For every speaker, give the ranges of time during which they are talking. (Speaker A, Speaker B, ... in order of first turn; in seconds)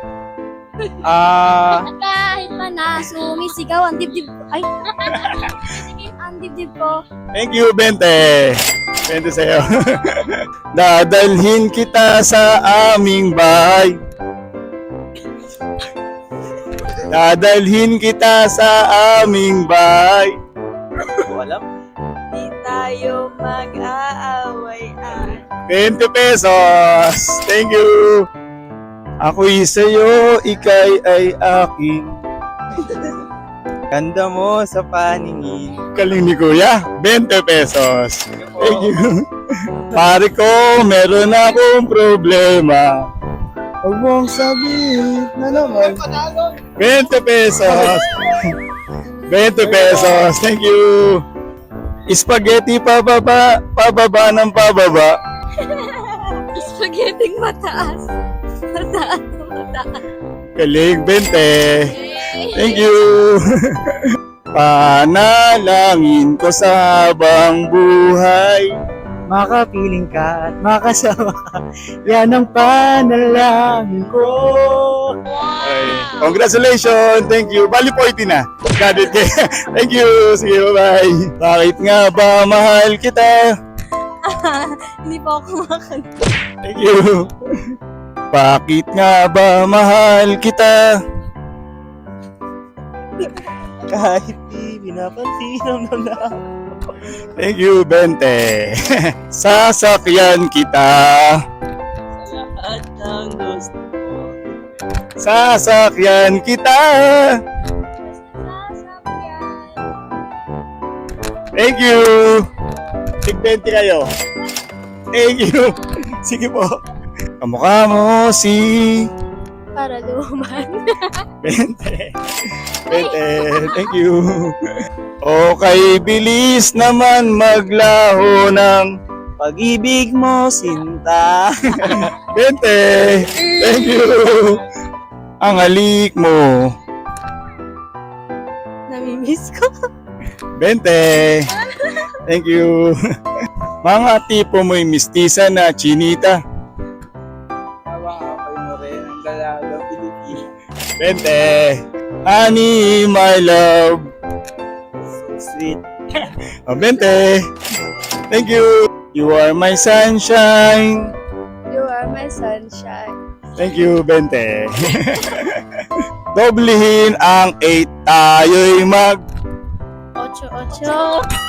Speaker A: 1.0-1.9, 21.2-21.6, 33.9-35.8, 45.8-46.3, 69.3-71.6, 72.1-75.0, 93.9-96.4, 102.2-104.2, 129.4-132.1, 147.9-150.5, 155.1-155.8
Speaker B: 1.8-7.0, 55.6-58.1, 58.7-60.0, 61.9-62.8, 84.2-86.1, 108.0-109.8, 119.8-120.7, 122.9-123.5, 138.9-139.7, 161.7-163.1, 170.2-171.2
Speaker C: 7.3-13.9, 17.1-20.3, 25.7-28.2, 29.2-32.1, 35.9-39.2, 39.9-42.9, 43.9-45.8, 46.8-48.5, 49.3-51.2, 52.1-55.1, 60.6-63.9, 64.5-68.7, 75.6-83.4, 86.6-87.3, 88.3-90.9, 97.3-101.4, 105.2-107.3, 111.5-112.5, 113.2-114.0, 115.1-116.8, 117.4-119.1, 121.4-122.1, 122.9-124.6, 125.2-128.9, 131.8-134.6, 135.4-136.6, 140.6-141.5, 142.2-142.8, 143.8-146.4, 151.0-154.1, 156.7-157.4, 158.3-161.1, 163.6-169.2
Speaker D: 23.0-24.9